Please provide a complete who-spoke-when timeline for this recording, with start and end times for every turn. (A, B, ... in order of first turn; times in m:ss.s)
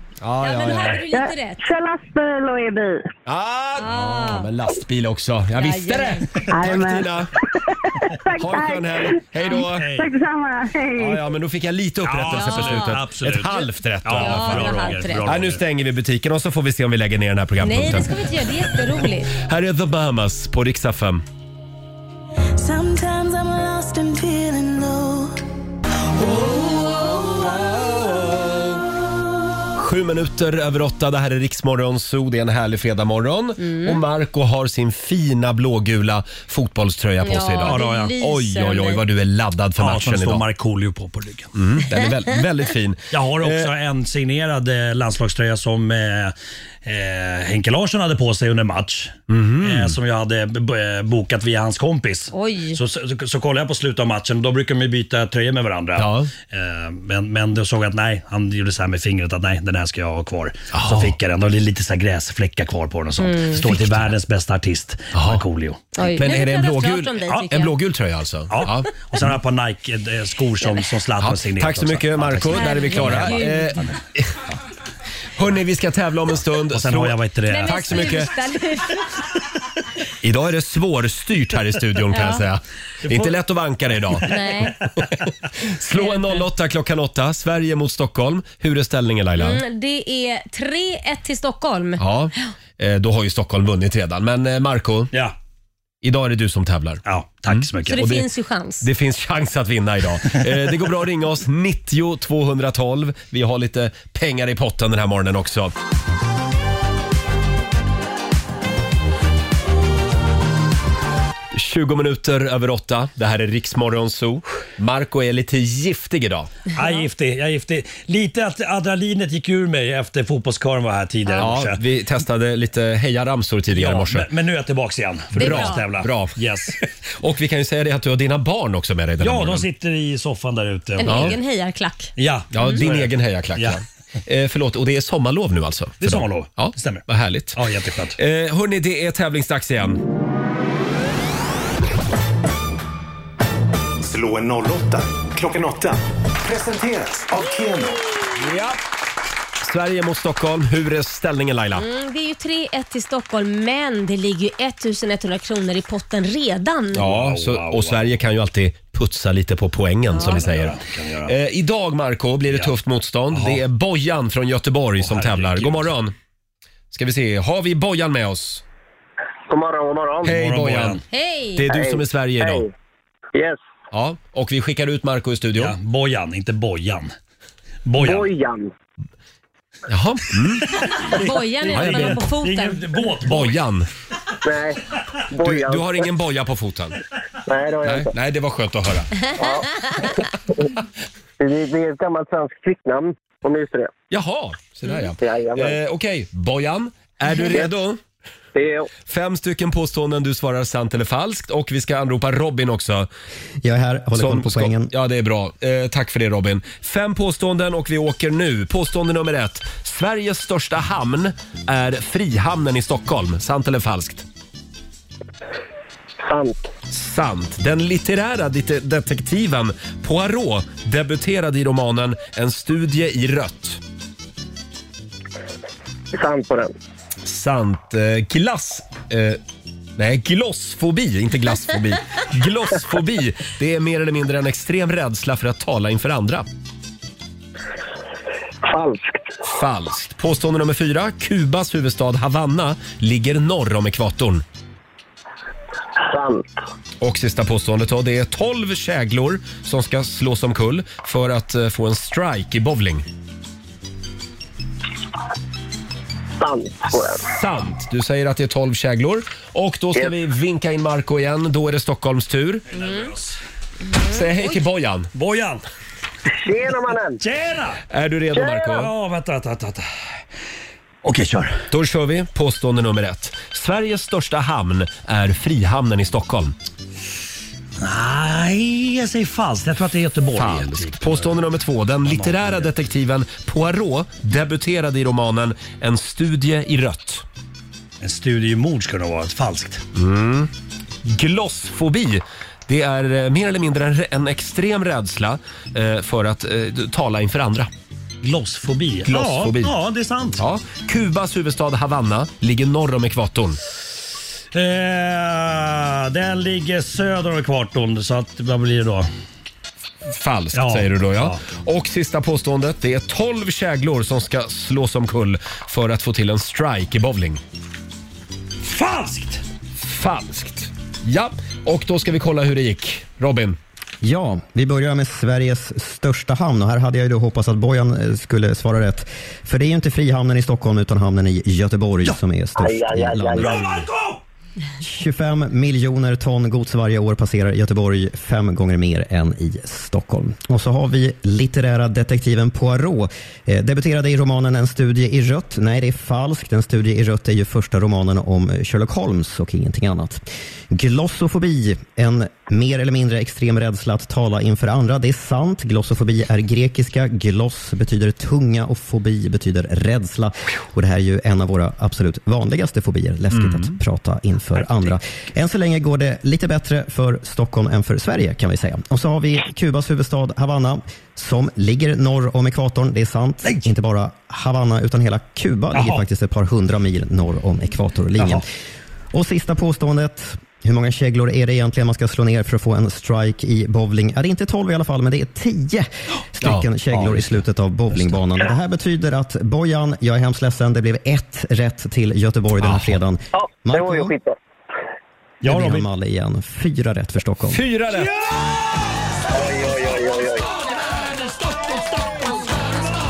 0:00.2-0:01.0 A
0:00.4-0:01.6 B
0:01.1-0:03.1 C
0:03.3-0:07.3 A
0:03.8-0:04.5 B
0:05.5-0:06.3 B
0:06.6-0:07.1 C
0:08.0-0:11.2 C
0:08.4-0:09.9 A
0:09.7-0:10.1 D
0:11.0-0:18.2 A
0:12.0-0:15.6 D
0:12.3-0:13.0 B
0:14.2-0:15.3 B
0:17.6-0:19.3 B
0:19.0-0:21.2 A
0:22.6-0:25.4 E
0:27.8-0:28.6 A
0:29.8-0:40.4 A
0:33.6-0:34.0 B
0:37.2-0:39.0 B
0:37.6-0:38.2 D
0:39.8-0:41.5 D
0:41.6-0:43.7 A
0:43.1-1:05.8 D
0:49.3-0:50.0 A
0:52.3-0:52.8 B
0:56.0-0:56.3 A
1:00.7-1:01.2 A
1:03.2-1:03.7 B
1:03.8-1:04.1 A
1:05.1-1:05.4 A
1:06.0-1:07.7 B
1:06.0-1:08.9 A
1:08.5-1:14.0 D
1:11.2-1:14.4 A
1:12.5-1:13.8 B
1:15.4-1:18.3 A
1:16.7-1:18.2 D
1:17.5-1:19.1 B
1:20.2-1:24.9 A
1:22.1-1:22.4 B
1:23.0-1:23.4 D
1:24.1-1:24.7 D
1:24.3-1:24.8 B
1:25.6-1:29.6 A
1:26.0-1:26.5 B
1:29.4-1:32.5 B
1:32.0-1:35.1 A
1:36.0-1:38.3 A
1:37.1-1:38.0 D
1:37.9-1:38.9 B
1:38.8-1:45.8 A
1:51.5-1:56.5 A
1:56.7-2:01.8 D
2:01.4-2:04.3 A
2:03.7-2:06.8 D
2:05.4-2:05.8 B
2:05.4-2:06.4 A
2:07.2-2:09.7 A
2:09.2-2:11.4 D
2:11.0-2:12.8 B
2:11.0-2:11.4 A
2:12.2-2:13.8 D
2:12.5-2:17.6 A
2:16.0-2:18.2 D
2:18.2-2:20.0 A
2:24.0-2:28.0 F
2:28.4-2:28.8 A
2:29.6-2:31.9 A
2:31.8-2:37.1 B
2:36.9-2:46.1 A
2:37.0-2:38.1 D
2:40.1-2:40.4 B
2:40.2-2:41.3 D
2:43.3-2:43.6 D
2:45.0-2:45.9 D
2:46.9-2:48.6 A
2:49.5-2:50.3 G
2:50.2-2:51.0 A
2:50.2-2:51.0 D
2:51.1-2:51.6 B
2:51.6-2:52.7 A
2:51.7-2:52.7 G
2:53.9-2:55.8 A
2:55.6-2:57.1 D
2:57.9-2:58.3 D
2:58.0-2:58.7 G
2:59.9-3:00.8 A
3:01.0-3:03.6 D
3:01.1-3:02.9 B
3:01.7-3:02.2 A
3:03.2-3:03.9 A
3:04.4-3:04.8 G
3:05.3-3:06.1 G
3:05.4-3:07.0 A
3:07.5-3:08.1 G
3:07.8-3:09.1 A
3:09.4-3:10.2 G
3:11.4-3:13.9 G
3:14.1-3:18.0 A
3:15.2-3:15.8 G
3:18.6-3:18.9 G
3:19.0-3:23.1 A
3:23.6-3:24.9 H
3:24.2-3:34.2 A
3:36.2-3:36.7 G
3:36.9-3:43.8 A
3:46.1-3:46.7 G
3:47.2-3:49.4 A
3:50.0-3:56.5 A
3:58.6-3:59.3 G
3:59.4-4:04.4 A
4:06.0-4:06.5 G
4:07.0-4:13.1 A
4:16.4-4:17.2 G
4:17.2-4:22.7 A
4:22.7-4:23.4 D
4:22.8-4:23.1 B
4:24.0-4:24.6 B
4:24.0-4:25.1 A
4:25.2-4:25.6 D
4:26.4-4:27.2 G
4:27.2-4:27.8 D
4:27.9-4:28.9 A
4:28.3-4:28.7 G
4:28.7-4:29.8 D
4:31.0-4:31.6 D
4:31.7-4:36.6 A
4:37.8-4:41.4 D
4:40.3-4:47.2 A
4:42.0-4:42.7 D
4:48.0-4:49.8 D
4:49.9-4:50.5 A
4:51.0-4:57.7 A
4:58.2-5:00.4 D
4:59.0-4:59.8 A
5:00.4-5:03.6 A
5:04.5-5:09.1 D
5:10.1-5:17.4 A
5:10.5-5:11.4 D
5:18.6-5:19.4 D
5:19.8-5:23.6 A
5:24.0-5:33.6 H
5:32.6-5:33.6 G
5:33.4-5:34.2 D
5:34.8-6:18.5 H
6:03.3-6:03.7 A
6:04.6-6:04.9 D
6:13.4-6:13.7 D
6:15.7-6:16.0 D
6:19.1-6:34.1 H
6:26.4-6:26.7 A
6:26.9-6:27.2 D
6:32.6-6:33.0 A
6:33.3-6:34.4 G
6:35.4-6:35.8 D
6:35.4-6:37.6 H
6:37.5-6:38.1 A
6:38.0-6:38.4 D
6:39.3-6:40.5 G
6:41.9-6:42.2 D